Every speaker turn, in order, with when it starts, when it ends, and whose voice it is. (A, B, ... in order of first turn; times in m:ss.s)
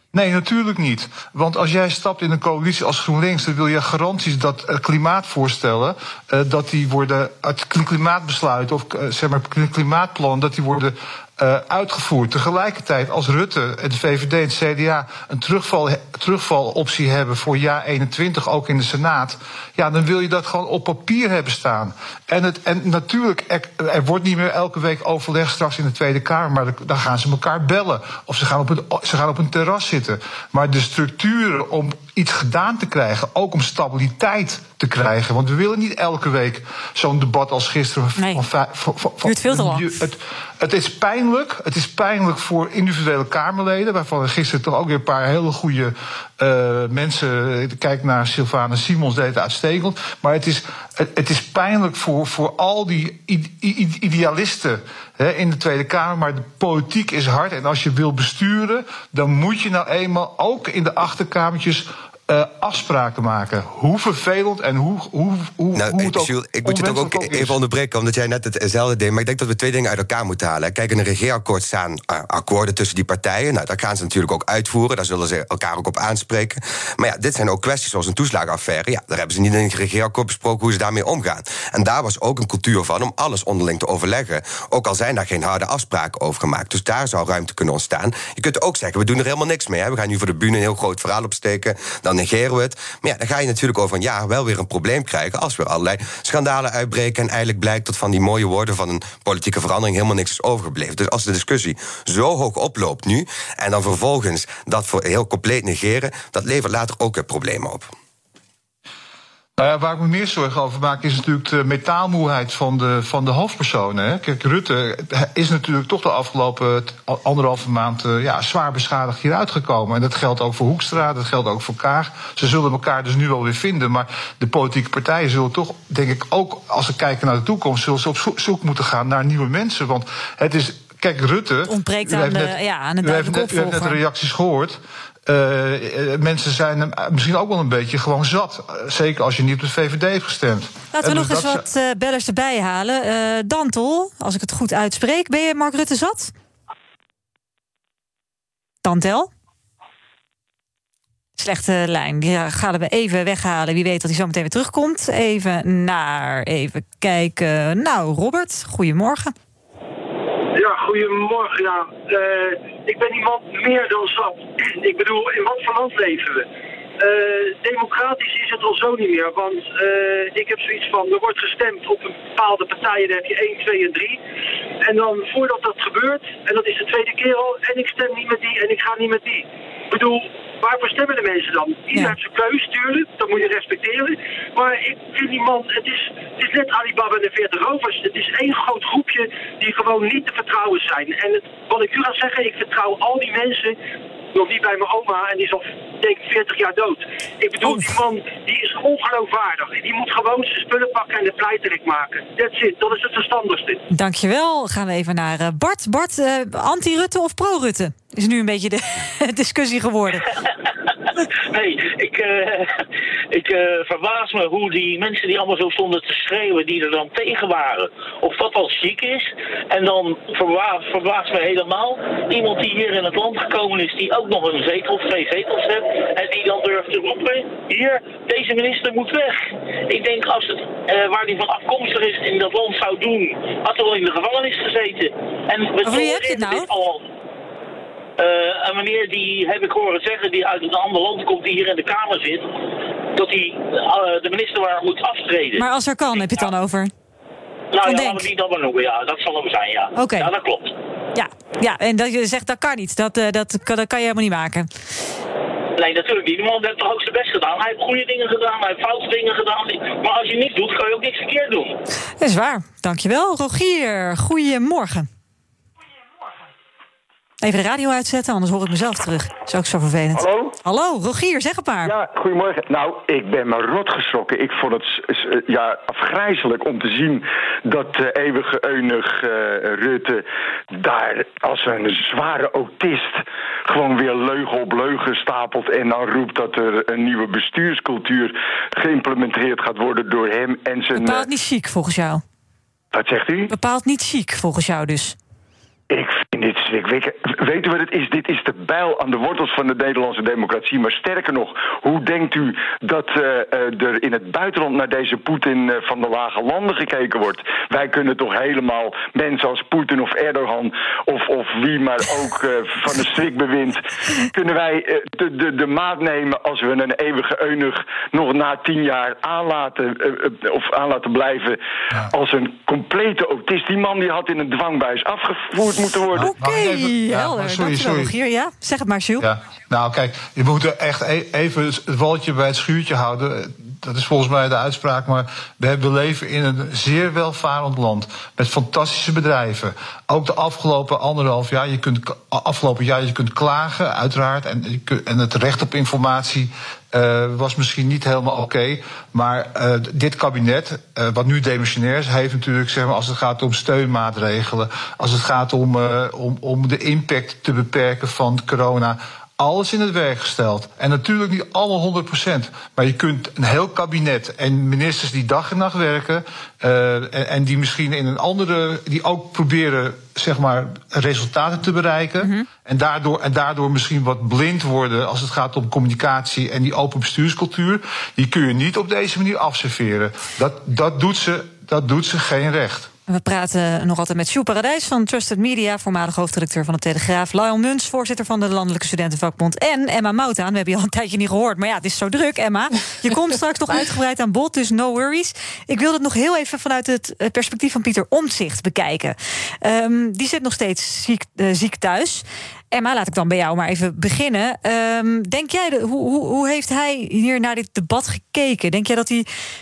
0:00.1-1:07.6 A
0:38.2-0:38.4 B
0:39.2-0:39.9 B
1:05.8-1:47.9 C
1:49.6-2:21.6 A
2:11.7-2:14.0 B
2:20.9-2:26.3 B
2:28.8-2:29.3 B
2:31.4-2:39.3 B
2:40.6-2:46.5 D
2:47.0-2:54.2 D
2:54.8-3:13.8 D
3:14.3-3:23.8 D
3:17.6-3:17.9 B
3:23.9-3:30.3 B
3:31.5-3:57.1 E
3:55.8-3:56.7 B
3:58.2-4:02.5 E
4:03.2-4:05.6 E
4:05.6-4:06.9 B
4:07.7-4:10.8 E
4:07.8-4:08.3 B
4:10.0-4:10.3 B
4:11.2-4:14.7 B
4:15.8-4:21.8 E
4:22.2-4:25.1 B
4:27.4-4:31.9 B
4:30.2-4:30.6 F
4:31.8-4:51.3 F
4:50.9-4:52.2 B
4:52.9-4:53.5 F
4:53.5-4:55.2 B
4:55.9-5:26.3 F
5:26.2-5:28.1 A
5:26.2-5:29.3 B
5:29.2-6:22.9 A
6:12.2-6:12.5 B
6:23.1-6:49.3 B